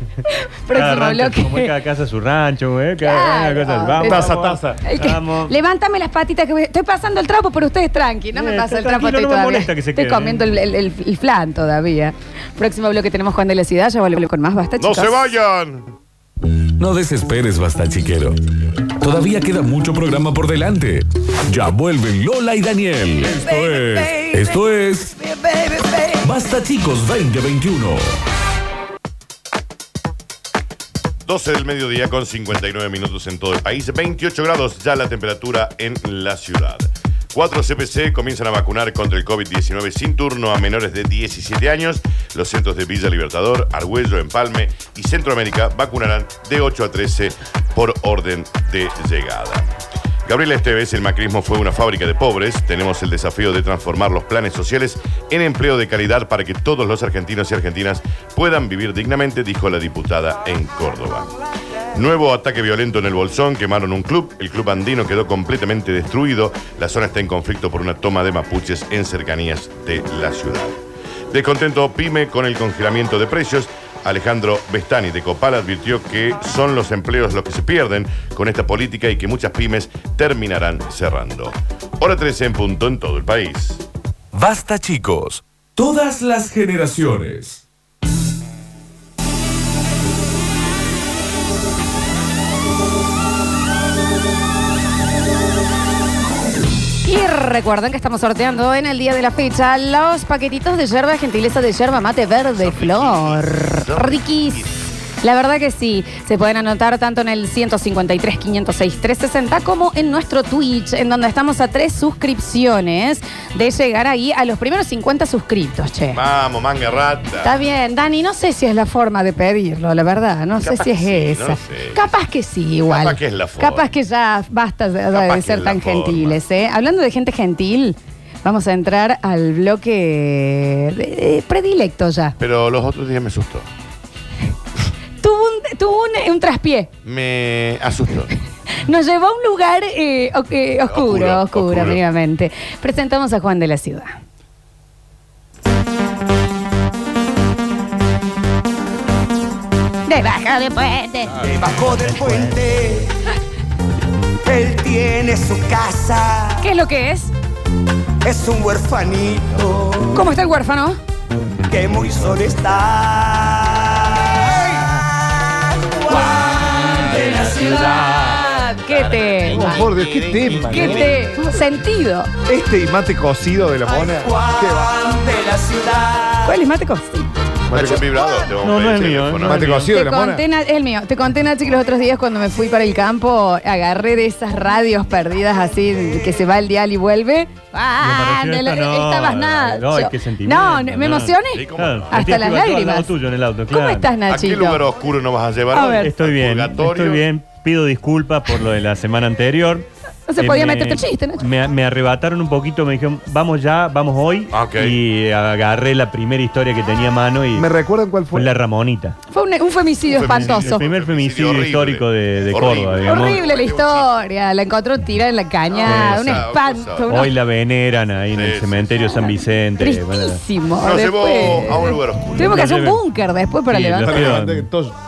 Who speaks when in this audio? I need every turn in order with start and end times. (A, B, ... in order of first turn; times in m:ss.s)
0:00.3-0:01.7 A
0:00.7-0:05.5 B
0:03.0-0:15.2 A
0:04.0-0:04.8 C
0:08.3-0:10.5 B
0:14.8-0:15.9 D
0:16.8-0:18.4 E
0:19.0-0:25.1 E
0:23.3-0:24.6 A
0:25.2-0:26.2 A
0:26.2-0:28.1 E
0:31.2-0:49.7 D
0:50.2-1:01.3 D
1:01.9-1:10.8 D
1:11.3-1:23.8 D
1:24.3-1:27.6 E
1:37.0-1:44.6 A
1:42.5-1:44.8 D
1:45.2-1:56.2 A
1:56.1-1:57.5 D
1:57.4-2:12.3 A
2:00.6-2:02.1 D
2:02.9-2:03.9 D
2:05.1-2:06.4 D
2:12.4-2:13.6 D
2:15.2-2:16.9 A
2:17.0-2:18.3 D
2:18.8-2:24.2 A
2:20.8-2:22.0 D
2:30.1-2:31.4 A
2:31.3-2:31.6 D
2:31.4-2:33.0 F
2:34.5-2:36.5 F
2:36.6-2:37.3 A
2:38.2-2:40.1 F
2:40.1-2:41.0 A
2:41.7-2:43.6 F
2:46.1-2:47.9 F
2:46.2-2:49.9 A
2:48.6-2:51.3 D
2:49.5-2:51.2 C
2:50.7-2:52.3 A
2:52.5-2:54.9 C
2:53.9-2:56.4 F
2:56.4-2:57.2 A
2:57.7-2:59.9 D
2:57.7-2:58.0 C
2:58.6-2:59.8 B
2:59.4-3:00.4 C
2:59.8-3:13.1 A
3:08.0-3:14.1 B
3:11.5-3:12.5 D
3:13.7-3:14.8 A
3:14.3-3:17.2 D
3:15.7-3:16.1 A
3:16.0-3:19.9 B
3:20.3-3:21.4 A
3:20.4-3:27.7 B
3:24.5-3:25.0 D
3:27.6-3:28.5 C
3:28.3-3:29.2 B
3:29.3-3:30.8 A
3:30.1-3:34.2 D
3:30.4-3:33.4 B
3:33.0-3:37.3 A
3:35.7-3:37.2 D
3:35.9-3:36.4 B
3:37.1-3:40.4 B
3:38.3-3:39.2 D
3:39.8-3:44.3 A
3:40.8-3:42.6 D
3:42.4-3:43.0 B
3:43.7-3:44.7 B
3:44.0-3:44.9 C